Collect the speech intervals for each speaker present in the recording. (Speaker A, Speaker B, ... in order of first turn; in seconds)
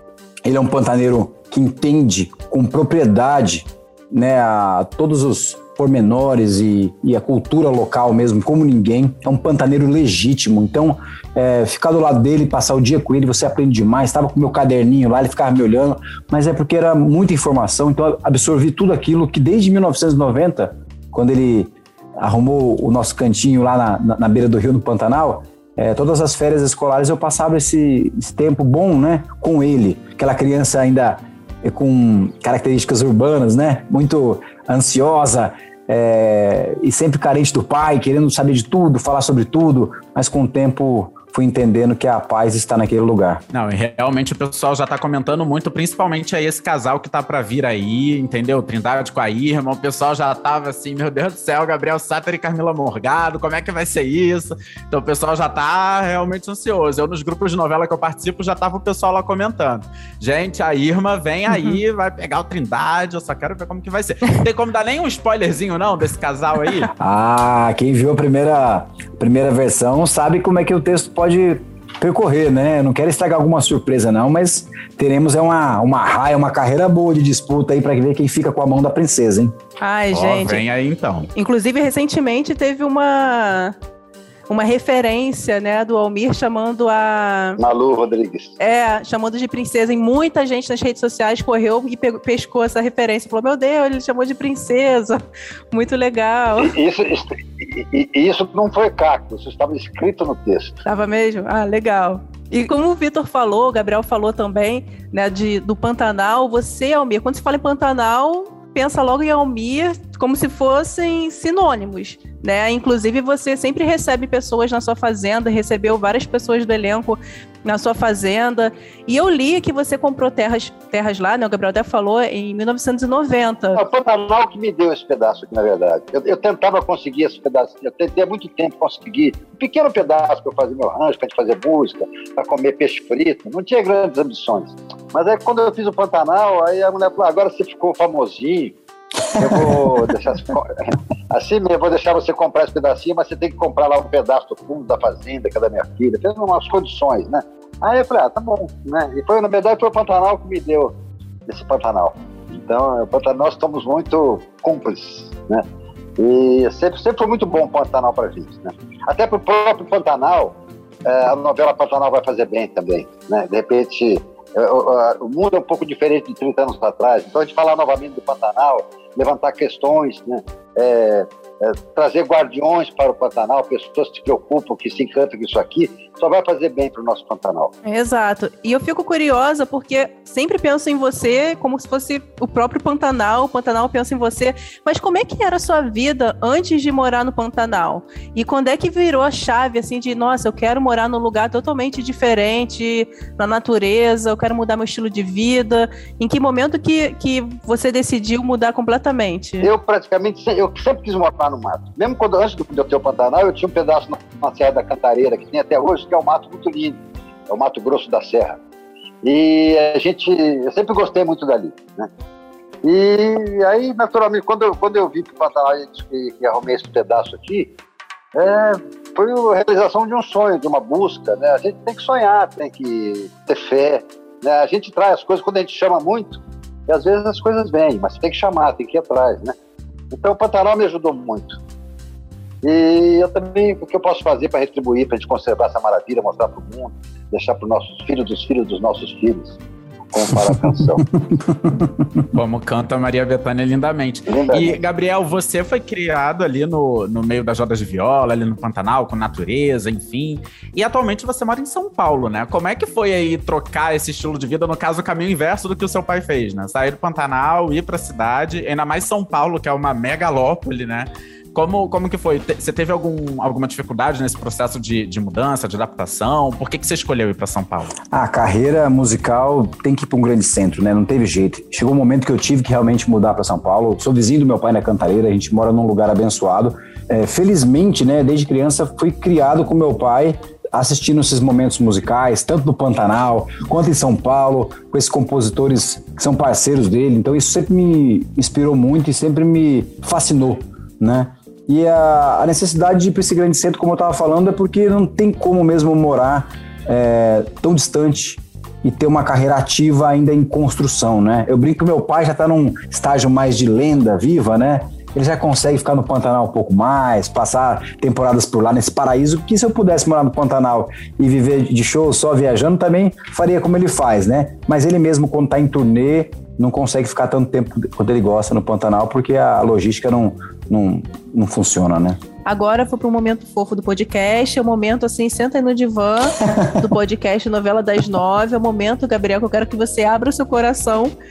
Speaker A: 0.4-43.4, 67.0-79.5, 240.4-242.3, 268.1-322.2
Speaker B: 43.5-66.9, 80.1-81.3, 242.3-267.9
Speaker C: 79.8-80.6, 81.3-83.7, 84.5-87.6, 88.6-96.7, 100.8-123.8, 177.8-199.7, 322.4-331.1
Speaker D: 87.6-88.5, 96.6-100.8, 123.8-138.8, 139.4-150.9, 151.5-155.6, 156.2-177.7, 199.6-208.6, 209.2-212.1, 212.8-217.7, 218.3-229.5, 230.1-231.6, 232.6-239.6, 240.1-241.0, 244.3-244.8